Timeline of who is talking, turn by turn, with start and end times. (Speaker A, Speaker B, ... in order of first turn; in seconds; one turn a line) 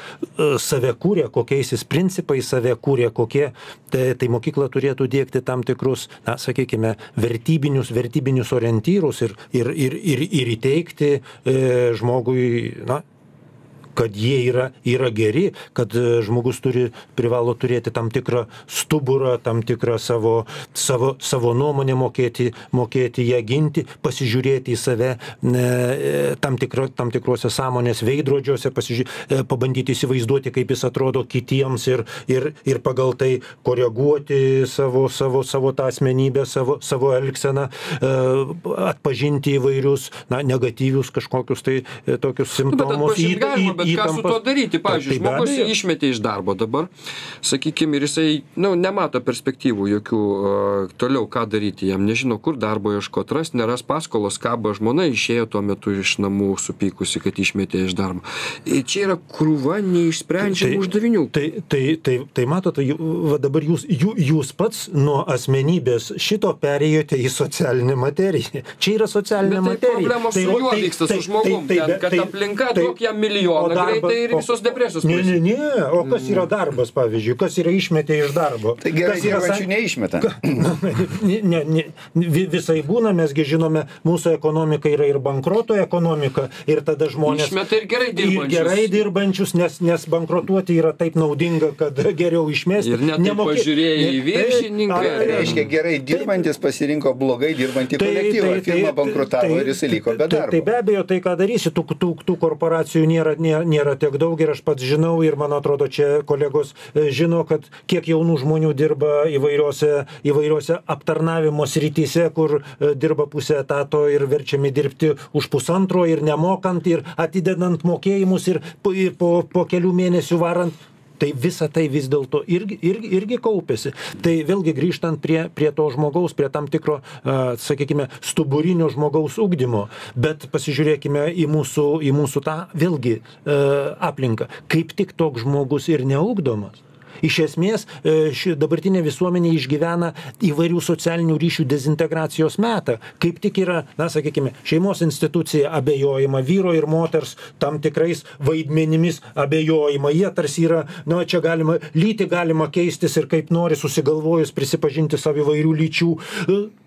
Speaker A: 0.4-13.0
Speaker A: 13.9-45.7
Speaker B: 42.7-46.9
Speaker B: 47.4-61.3
Speaker A: 60.4-72.9
Speaker B: 69.4-75.4
Speaker A: 73.5-74.5
Speaker A: 75.0-79.7
Speaker C: 78.8-80.5
Speaker A: 80.2-87.6
Speaker B: 87.2-89.0
Speaker A: 88.1-96.3
Speaker B: 92.8-95.6
Speaker C: 95.0-100.7
Speaker A: 98.0-156.7